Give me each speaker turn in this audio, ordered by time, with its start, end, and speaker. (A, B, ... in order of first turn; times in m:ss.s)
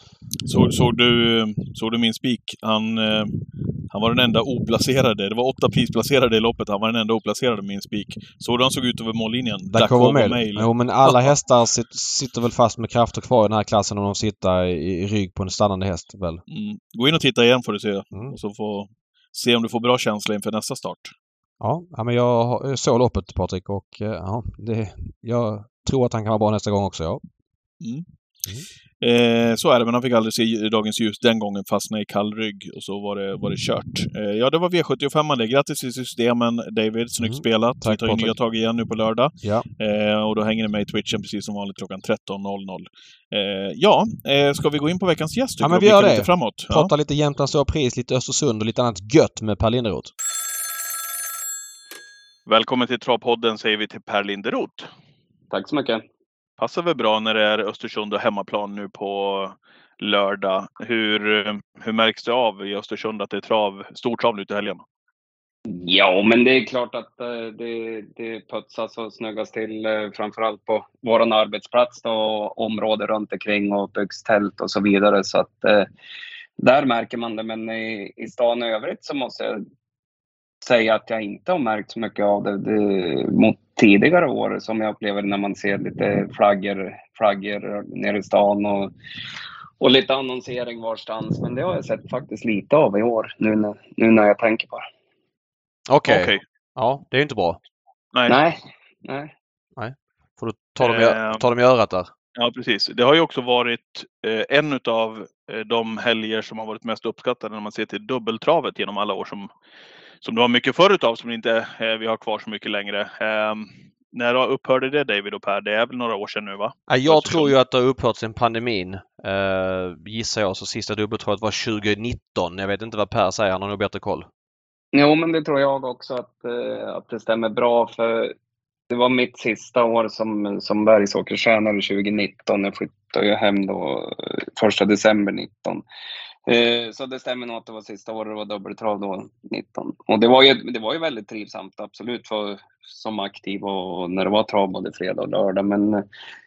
0:00.5-0:11.3 A
0:09.7-0:16.4 B
0:16.5-0:21.1 A
0:21.6-0:27.2 B
0:29.0-0:46.9 A
0:37.2-0:38.3 B
0:45.6-0:50.1 B
0:52.5-0:54.9 A
0:55.5-0:56.0 C
0:56.6-1:04.8 A
1:05.7-1:15.9 C
1:16.6-1:19.6 C
1:20.6-1:28.9 C
1:29.8-1:34.9 C
1:35.9-1:37.6 B
1:36.1-1:36.4 A
1:38.3-1:39.3 C
1:39.8-1:42.1 B
1:40.8-1:41.4 A
1:42.4-1:49.5 A
1:50.2-1:57.5 A
1:56.9-2:04.3 B
2:04.9-2:08.4 C
2:08.9-2:15.8 C
2:16.5-2:26.1 C